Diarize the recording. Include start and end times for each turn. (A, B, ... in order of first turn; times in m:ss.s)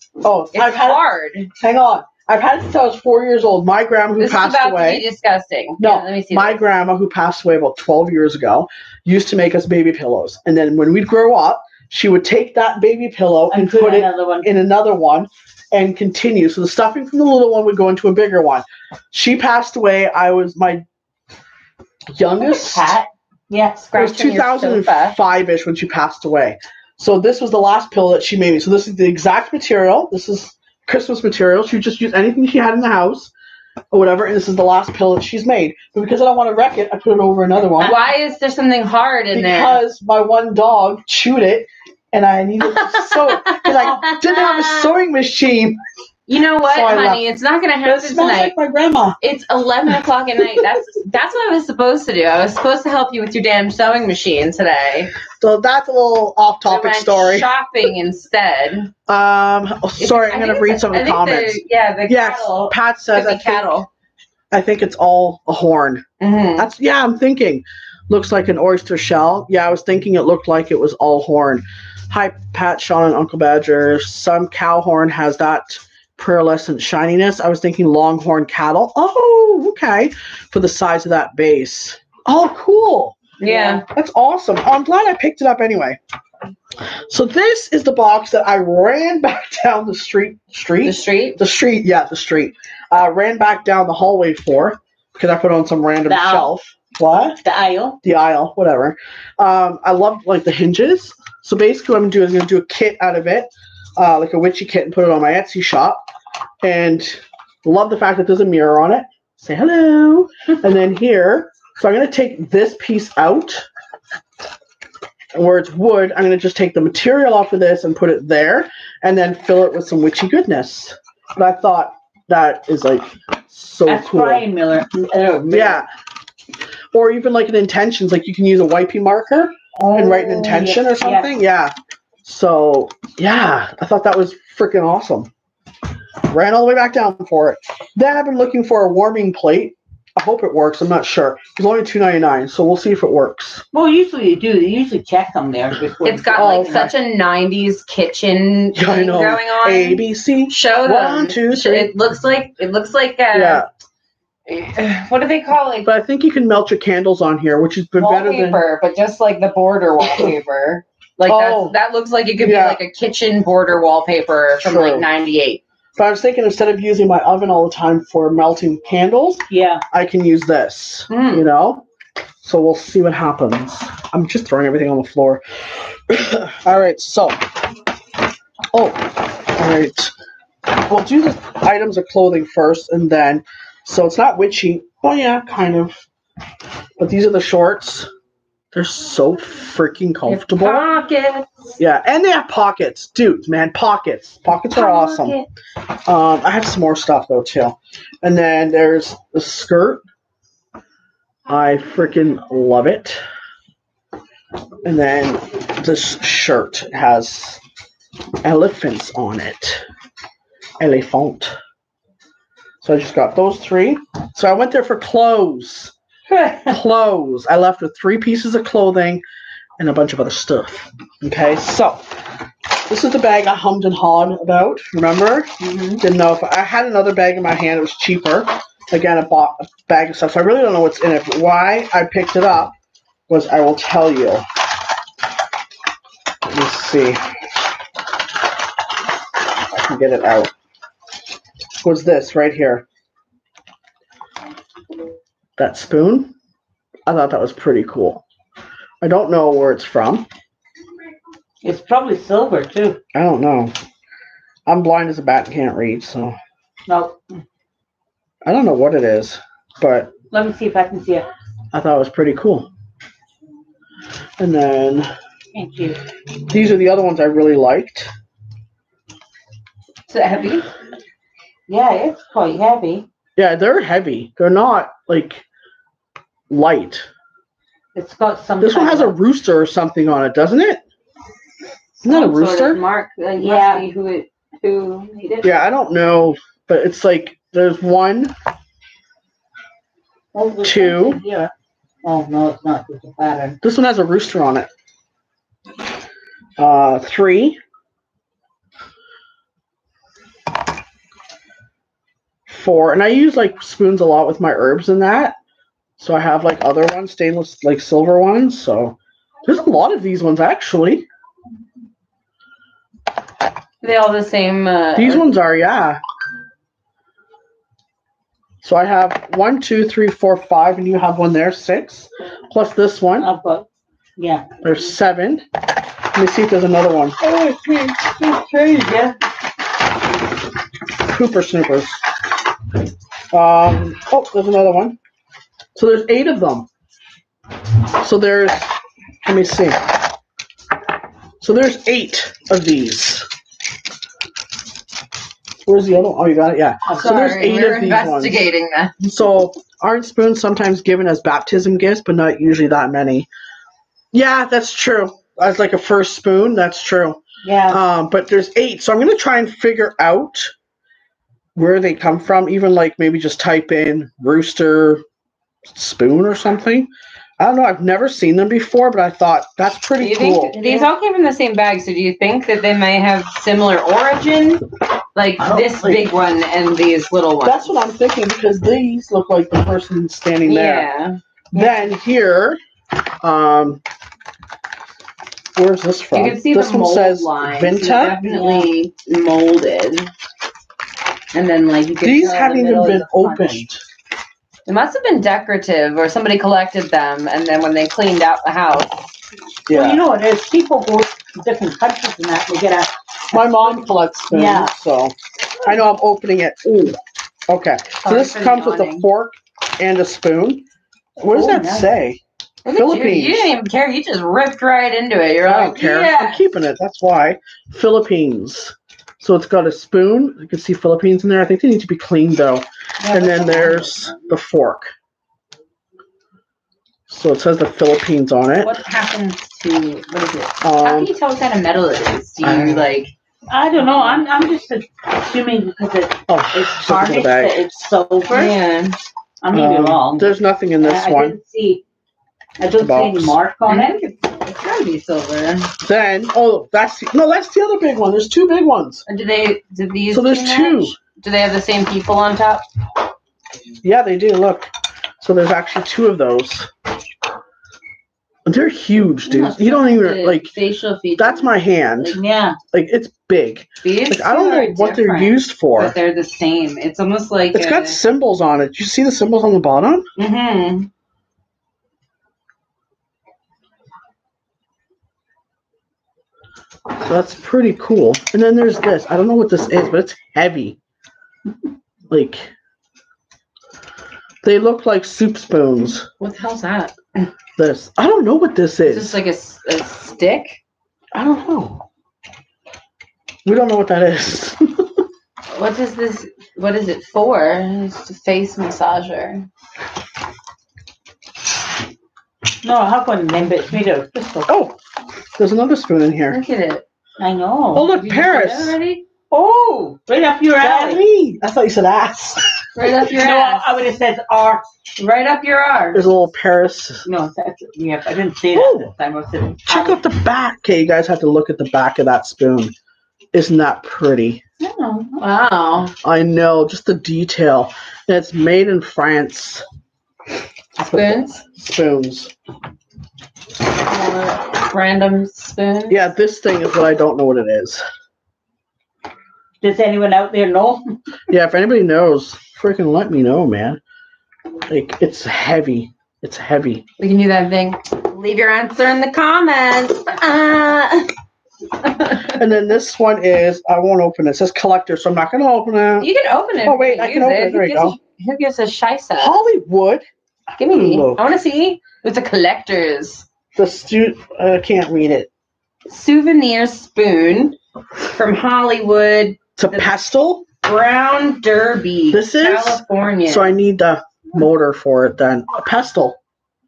0:00.2-0:05.0 A
0:00.5-0:01.5 B
0:04.2-0:06.6 B
0:05.8-0:20.8 A
0:13.5-0:14.5 C
0:22.1-0:23.0 A
0:22.2-0:23.9 C
0:23.9-0:25.2 B
0:23.9-0:33.3 A
0:33.9-0:38.0 A
0:37.8-0:39.8 B
0:39.3-0:45.8 A
0:43.4-0:44.9 B
0:46.3-0:48.5 B
0:46.6-0:47.2 A
0:47.8-0:49.2 A
0:49.2-0:55.1 B
0:55.4-0:57.5 A
0:56.7-0:58.9 B
0:59.1-1:03.8 A
1:00.0-1:03.9 B
1:04.5-1:06.0 A
1:06.2-1:06.7 B
1:06.6-1:23.2 A
1:23.4-1:23.8 B
1:23.4-1:23.8 C
1:23.8-1:26.0 A
1:27.1-1:37.4 A
1:30.8-1:31.4 B
1:36.0-1:36.5 C
1:37.3-1:38.0 C
1:38.0-1:46.0 A
1:46.6-1:53.7 A
1:55.3-2:04.4 A
2:03.8-2:05.8 C
2:05.5-2:05.9 A
2:06.9-2:11.7 A
2:09.8-2:11.3 C
2:12.2-2:15.3 A
2:16.2-2:23.6 A
2:23.7-2:26.9 C
2:26.0-2:33.6 B
2:26.3-2:26.9 A
2:28.7-2:31.9 A
2:33.3-2:33.7 A
2:34.5-2:35.9 B
2:35.8-2:38.6 A
2:38.0-2:45.6 B
2:40.0-2:40.3 A
2:41.2-2:41.7 A
2:42.4-2:42.8 A
2:44.6-2:45.0 A
2:46.0-2:51.8 A
2:49.5-2:49.8 C
2:51.1-2:51.4 B
2:52.4-2:57.4 A
2:58.7-3:00.1 A
3:00.7-3:06.0 A
3:07.0-3:08.1 A
3:08.7-3:10.8 A
3:10.2-3:11.5 B
3:11.8-3:15.4 A
3:14.7-3:15.5 B
3:16.0-3:20.0 A
3:21.5-3:23.2 A
3:24.8-3:27.6 A
3:28.4-3:29.8 A
3:30.8-3:31.5 A
3:32.8-3:35.9 A
3:36.3-3:36.7 B
3:36.7-3:39.2 A
3:39.8-3:42.1 A
3:42.9-3:52.7 A
3:45.7-3:46.0 B
3:53.3-3:54.4 A
3:56.5-3:57.2 A
3:59.7-4:00.5 A
4:01.8-4:02.8 A
4:05.6-4:06.3 A
4:07.1-4:08.2 A
4:09.0-4:10.3 A
4:11.6-4:13.0 C
4:13.1-4:13.7 A
4:14.7-4:16.4 A
4:16.9-4:17.2 C
4:18.4-4:20.1 A
4:20.3-4:21.3 C
4:21.7-4:22.7 A
4:24.4-4:25.1 A
4:25.5-4:26.0 C
4:26.5-4:28.1 A
4:30.1-4:30.7 B
4:31.7-4:33.0 C
4:33.4-4:35.4 A
4:36.5-4:37.1 A
4:37.9-4:39.1 C
4:38.6-4:40.8 A
4:42.0-4:42.8 A
4:42.1-4:45.5 B
4:43.4-4:43.8 C
4:45.4-4:48.3 A
4:50.3-4:51.5 C
4:50.6-4:51.2 A
4:52.0-4:53.6 C
4:53.6-4:54.7 A
4:56.6-4:57.6 A
5:02.5-5:05.4 A
5:06.0-5:11.0 A
5:13.8-5:15.3 B
5:15.0-5:16.0 A
5:18.6-5:23.3 A
5:23.2-5:23.6 C
5:24.2-5:24.5 C
5:24.6-5:25.4 A
5:26.1-5:27.2 A
5:27.2-5:29.2 C
5:31.0-5:32.0 A
5:33.3-5:35.0 A
5:35.7-5:36.7 A
5:38.0-5:38.7 A
5:39.2-5:39.9 A
5:41.4-5:43.3 A
5:45.6-5:48.5 A
5:46.9-5:47.2 C
5:47.0-5:48.9 B
5:49.0-5:53.3 A
5:54.1-6:00.5 A
5:57.4-5:57.8 C
6:01.6-6:05.0 A
6:05.7-6:10.6 A
6:10.0-6:14.6 B
6:10.6-6:10.9 C
6:15.1-6:17.8 B
6:15.4-6:16.1 A
6:17.4-6:20.9 A
6:20.4-6:21.2 B
6:21.5-6:22.6 A
6:21.6-6:21.8 C
6:23.2-6:23.8 A
6:25.6-6:28.7 A
6:26.1-6:30.1 B
6:31.3-6:33.6 B
6:32.0-6:33.8 A
6:34.6-6:39.0 B
6:39.7-6:40.0 A
6:39.7-6:43.4 C
6:43.3-6:47.0 A
6:44.3-6:44.7 C
6:47.5-6:50.6 A
6:48.0-6:49.1 B
6:51.2-6:52.2 A
6:51.3-6:51.9 C
6:52.6-6:56.4 B
6:52.7-6:53.5 A
6:55.4-7:04.9 A
7:03.0-7:04.2 B
7:07.1-7:08.8 A
7:08.6-7:13.1 B
7:10.6-7:11.1 A
7:12.4-7:12.9 A
7:13.5-7:18.5 C
7:13.8-7:14.2 B
7:16.3-7:17.6 A
7:18.3-7:19.0 B
7:19.4-7:21.8 C
7:19.5-7:21.4 A
7:22.6-7:24.0 C
7:22.8-7:23.4 A
7:23.7-7:25.7 B
7:25.8-7:29.0 A
7:29.1-7:32.6 B
7:30.1-7:30.9 A
7:33.8-7:34.7 A
7:35.2-7:36.7 A
7:38.4-7:40.5 A
7:39.2-7:42.2 B
7:41.2-7:42.2 A
7:42.2-7:42.6 C
7:42.7-7:45.9 A
7:43.8-7:48.0 B
7:47.5-7:50.0 A
7:50.2-7:50.9 B
7:57.0-8:00.8 A
8:02.1-8:02.5 A
8:04.4-8:06.1 A
8:06.2-8:07.3 B
8:07.6-8:09.2 A
8:08.8-8:10.6 B
8:11.1-8:11.8 A
8:13.4-8:15.0 A
8:15.5-8:19.5 B
8:22.6-8:24.4 C
8:24.4-8:24.8 A
8:25.4-8:26.4 A
8:26.3-8:26.8 B
8:27.2-8:27.9 C
8:27.7-8:28.8 A
8:28.0-8:29.0 B
8:29.3-8:31.0 C
8:30.6-8:32.6 A
8:32.8-8:33.7 B
8:33.1-8:34.6 C
8:35.0-8:36.1 B
8:35.9-8:37.0 A
8:37.0-8:40.0 C
8:38.5-8:38.9 A
8:39.7-8:42.7 A
8:43.3-8:44.4 A
8:44.6-8:45.2 C
8:45.1-8:45.9 B
8:46.0-8:49.6 A
8:50.8-8:51.4 B
8:50.8-8:52.3 A
8:53.8-8:56.0 B
8:55.9-8:57.8 A
8:59.6-9:01.0 C
9:01.3-9:03.8 A
9:04.7-9:06.8 A
9:07.0-9:11.1 B
9:11.8-9:12.4 B
9:12.3-9:16.1 A
9:16.0-9:19.4 B
9:16.6-9:18.0 A
9:19.2-9:20.0 A
9:20.6-9:23.2 B
9:20.7-9:21.2 A
9:23.5-9:25.3 A
9:25.9-9:27.6 B
9:28.1-9:29.9 B
9:29.6-9:30.4 A
9:30.6-9:33.6 B
9:32.1-9:36.2 A